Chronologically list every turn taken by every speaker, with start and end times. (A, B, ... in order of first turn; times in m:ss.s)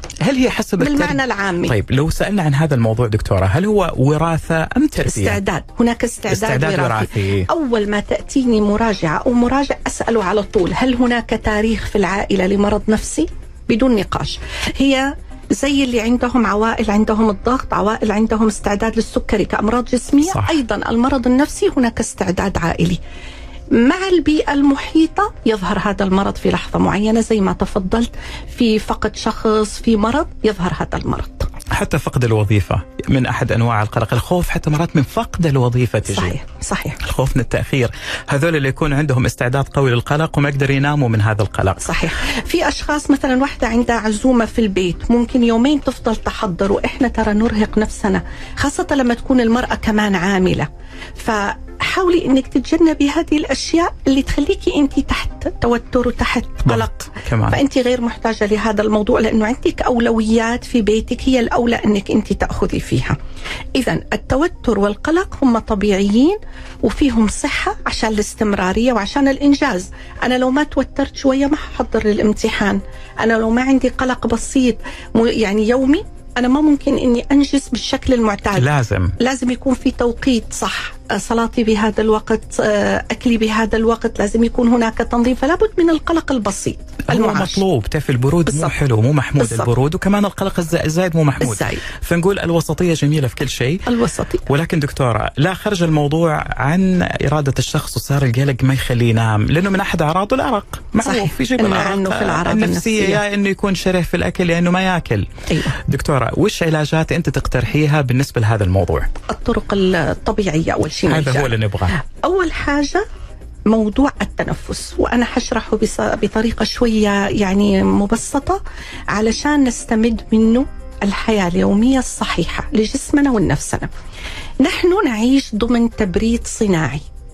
0:00.2-0:05.4 A
0:00.8-0:01.7 B
0:05.0-0:23.0 B
0:06.3-0:07.5 A
0:20.2-0:20.6 A
0:23.7-0:31.5 B
0:31.7-0:36.4 A
0:36.1-0:37.0 B
0:37.0-0:42.0 A
0:41.8-1:03.2 B
0:56.6-0:57.6 A
1:03.7-1:27.6 B
1:18.5-1:19.2 A
1:27.1-1:33.9 A
1:28.5-1:28.7 B
1:29.4-1:29.7 B
1:31.4-1:31.8 B
1:33.8-1:34.5 B
1:34.5-1:49.1 A
1:41.0-1:43.2 B
1:45.5-1:45.7 B
1:49.3-1:51.5 B
1:51.0-1:52.0 A
1:52.2-1:53.0 B
1:53.7-2:03.9 B
2:04.6-2:07.0 B